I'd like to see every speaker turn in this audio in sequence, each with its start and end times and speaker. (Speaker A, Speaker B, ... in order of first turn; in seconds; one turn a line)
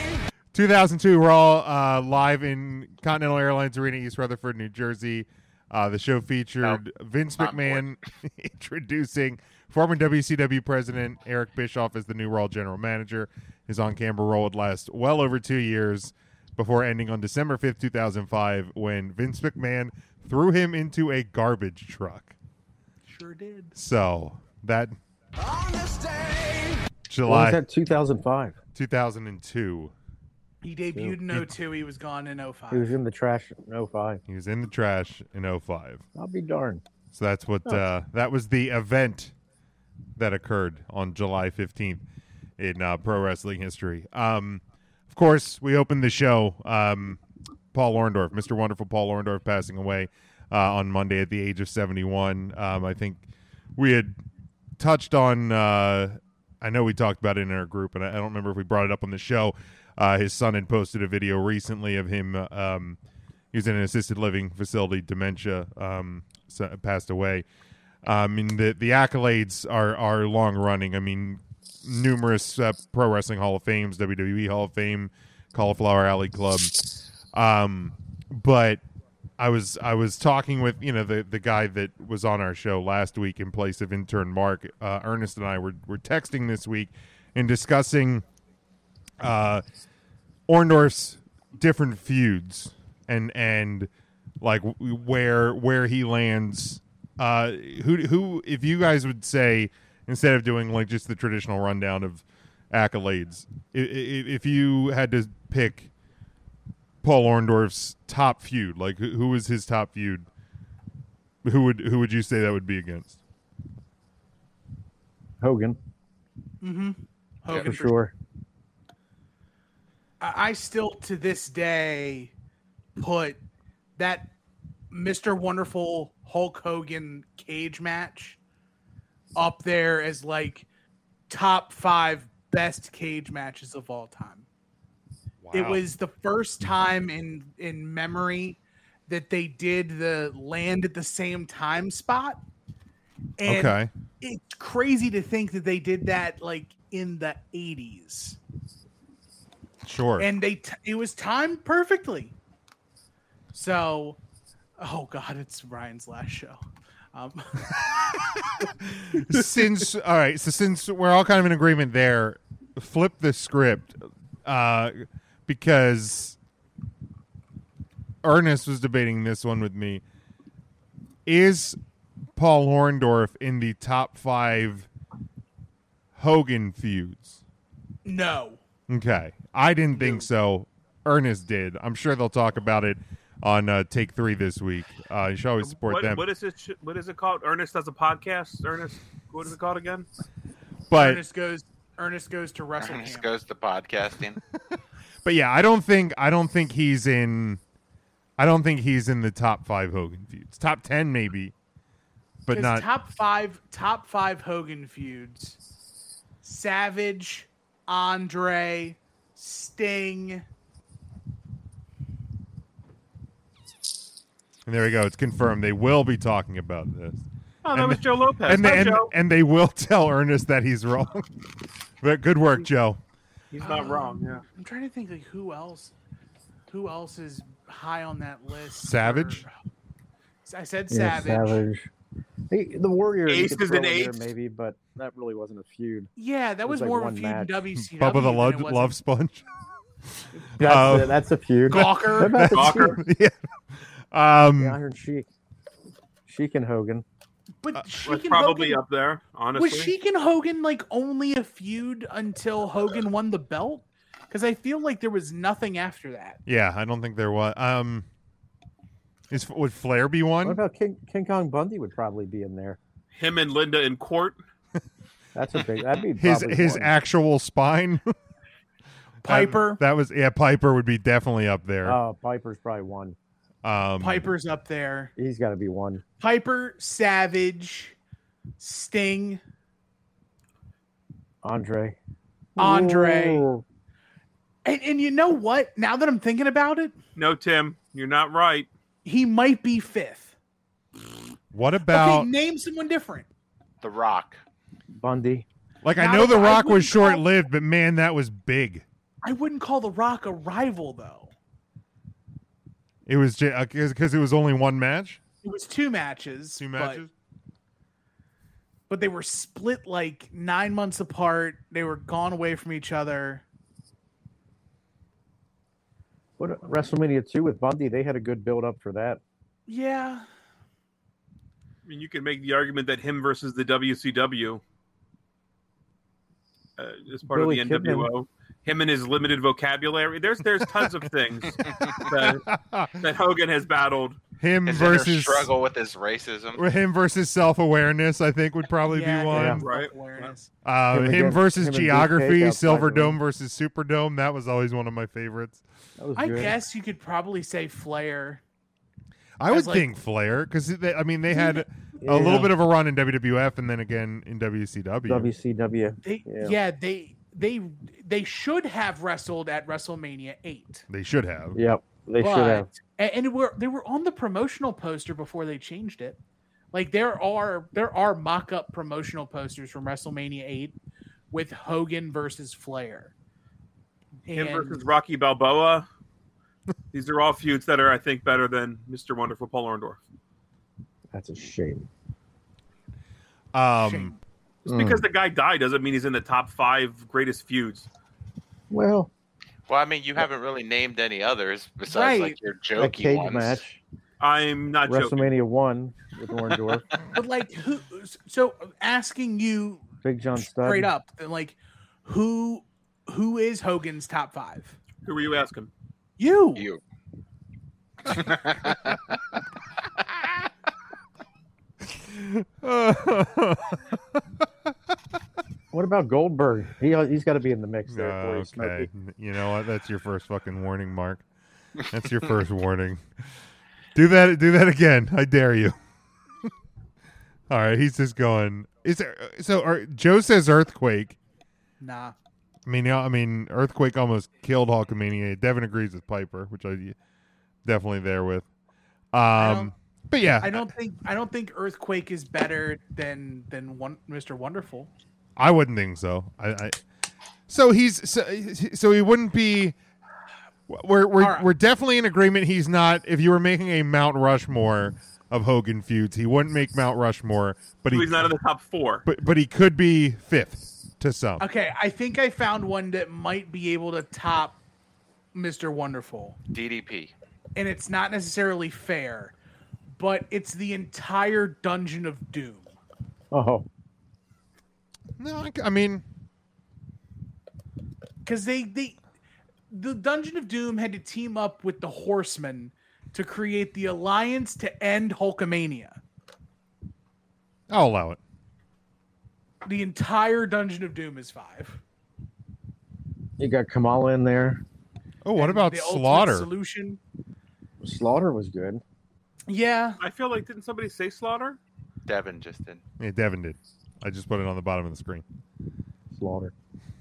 Speaker A: 0.5-22.3
Speaker B: 7.4-7.9
Speaker C: 23.1-23.7
Speaker A: 23.7-24.9
Speaker A: 27.1-27.6
Speaker D: 27.2-28.6
Speaker A: 28.7-29.9
Speaker C: 30.6-32.9
Speaker D: 32.7-34.2
Speaker A: 34.3-36.0
Speaker D: 36.1-36.8
Speaker A: 37.1-39.3
Speaker A: 40.2-42.0
Speaker A: 42.6-47.2
Speaker A: 47.7-53.2
Speaker A: 53.8-54.2
Speaker A: 54.8-63.0
Speaker A: 63.5-67.4
Speaker A: 68.0-76.7
Speaker A: 77.3-78.8
Speaker A: 79.4-88.2
Speaker A: 89.2-89.6
Speaker A: 90.5-93.9
Speaker A: 94.4-105.9
Speaker A: 107.0-110.2
Speaker A: 111.4-113.2
Speaker D: 115.4-115.8
Speaker C: 116.6-117.9
Speaker D: 117.5-118.1
Speaker C: 120.2-122.3
Speaker C: 123.0-123.4
Speaker C: 124.0-124.3
Speaker C: 124.9-128.4
Speaker C: 129.3-130.7
Speaker C: 131.3-134.4
Speaker A: 135.4-135.8
Speaker C: 135.5-142.4
Speaker C: 143.4-148.4
Speaker A: 143.4-143.9
Speaker A: 149.8-150.3
Speaker C: 150.2-152.3
Speaker C: 153.5-154.2
Speaker C: 154.8-156.6
Speaker C: 157.1-157.7
Speaker A: 158.8-166.4
Speaker C: 159.2-159.4
Speaker A: 168.2-170.0
Speaker A: 171.2-171.8
Speaker A: 172.3-174.9
Speaker A: 176.2-177.4
Speaker C: 178.0-178.6
Speaker A: 178.9-186.2
Speaker E: 185.6-190.1
Speaker A: 190.9-191.2
Speaker C: 190.9-193.3
Speaker B: 192.8-194.4
Speaker A: 195.2-197.6
Speaker A: 198.4-201.5
Speaker A: 202.4-202.8
Speaker C: 202.5-205.6
Speaker C: 206.4-210.4
Speaker A: 214.7-221.3
Speaker E: 217.6-219.1
Speaker A: 222.0-223.0
Speaker E: 223.5-224.4
Speaker C: 223.6-225.9
Speaker C: 226.7-229.5
Speaker A: 228.8-229.4
Speaker C: 230.4-231.6
Speaker D: 230.9-231.9
Speaker D: 232.5-236.1
Speaker E: 233.3-234.3
Speaker C: 236.2-238.9
Speaker D: 236.7-237.5
Speaker A: 237.8-239.4
Speaker D: 240.6-243.0
Speaker A: 240.6-241.2
Speaker C: 241.7-242.5
Speaker A: 241.7-243.3
Speaker E: 242.5-243.0
Speaker A: 244.1-244.8
Speaker D: 244.6-245.3
Speaker D: 246.3-247.0
Speaker C: 247.6-248.8
Speaker E: 248.1-249.9
Speaker C: 249.5-256.4
Speaker A: 256.4-258.1
Speaker A: 259.3-260.6
Speaker D: 260.4-262.8
Speaker E: 263.1-264.4
Speaker D: 265.3-266.9
Speaker A: 266.2-268.1
Speaker C: 269.2-269.8
Speaker A: 269.2-272.0
Speaker D: 271.8-273.1
Speaker A: 273.6-274.3
Speaker C: 274.0-275.1
Speaker D: 275.2-276.0
Speaker C: 276.2-277.9
Speaker C: 278.6-279.4
Speaker D: 281.4-282.0
Speaker D: 282.6-283.6
Speaker C: 282.6-283.4
Speaker C: 284.6-286.9
Speaker E: 287.1-288.7
Speaker C: 289.0-290.3
Speaker A: 291.5-292.3
Speaker C: 291.9-293.3
Speaker B: 293.8-294.4
Speaker D: 294.9-295.4
Speaker A: 295.8-298.8
Speaker C: 295.9-297.3
Speaker C: 299.2-301.3
Speaker A: 303.1-305.2
Speaker C: 305.4-307.0
Speaker A: 306.6-307.1
Speaker C: 308.9-313.4
Speaker D: 316.4-319.2
Speaker C: 319.7-320.2
Speaker E: 321.9-324.6
Speaker E: 326.8-332.5
Speaker D: 327.3-328.1
Speaker A: 332.3-333.0
Speaker E: 333.0-334.2
Speaker A: 334.4-335.5
Speaker B: 334.6-336.6
Speaker A: 336.5-339.6
Speaker C: 338.9-340.5
Speaker D: 339.3-339.6
Speaker E: 339.6-340.3
Speaker A: 340.6-345.6
Speaker D: 340.9-343.2
Speaker D: 346.0-346.6
Speaker C: 346.2-348.4
Speaker A: 349.4-355.3
Speaker C: 349.5-349.9
Speaker C: 351.3-351.6
Speaker D: 352.0-352.5
Speaker D: 355.1-356.6
Speaker C: 356.0-360.9
Speaker A: 360.9-361.6
Speaker D: 361.5-362.7
Speaker C: 362.2-366.2
Speaker C: 366.7-370.7
Speaker C: 371.3-373.1
Speaker C: 374.3-374.8
Speaker E: 374.3-375.9
Speaker E: 376.9-380.0
Speaker D: 381.1-381.9
Speaker A: 383.5-384.1
Speaker C: 383.8-384.2
Speaker E: 384.6-387.9
Speaker D: 384.7-385.0
Speaker D: 388.7-389.1
Speaker B: 389.7-393.6
Speaker C: 391.9-392.4
Speaker D: 392.8-393.8
Speaker E: 394.2-395.3
Speaker D: 394.9-396.9
Speaker C: 397.1-399.8
Speaker D: 400.0-400.9
Speaker C: 400.4-404.8
Speaker E: 405.0-405.7
Speaker C: 406.2-406.6
Speaker B: 406.5-406.8
Speaker B: 408.1-409.1
Speaker A: 412.1-413.8
Speaker D: 415.7-418.9
Speaker A: 417.9-421.2
Speaker A: 421.9-423.0
Speaker A: 423.9-425.8
Speaker A: 427.5-431.2
Speaker C: 431.8-432.1
Speaker A: 432.6-436.9
Speaker A: 437.6-438.4
Speaker A: 439.1-440.7
Speaker C: 439.4-439.7
Speaker C: 440.4-444.9
Speaker A: 445.4-446.8
Speaker A: 447.5-449.7
Speaker A: 450.7-458.3
Speaker C: 451.2-451.5
Speaker E: 457.9-459.0
Speaker A: 459.1-461.4
Speaker C: 461.4-464.6
Speaker C: 465.3-466.4
Speaker B: 466.5-467.1
Speaker C: 467.6-469.3
Speaker C: 469.9-472.7
Speaker D: 473.3-473.6
Speaker A: 475.2-476.0
Speaker C: 478.2-479.0
Speaker C: 479.7-486.0
Speaker A: 487.7-488.2
Speaker C: 489.6-491.8
Speaker D: 493.4-494.6
Speaker A: 495.2-496.5
Speaker C: 495.3-497.0
Speaker D: 497.8-498.8
Speaker C: 499.5-500.0
Speaker E: 500.0-501.6
Speaker B: 502.1-502.8
Speaker A: 503.0-505.2
Speaker D: 506.1-506.5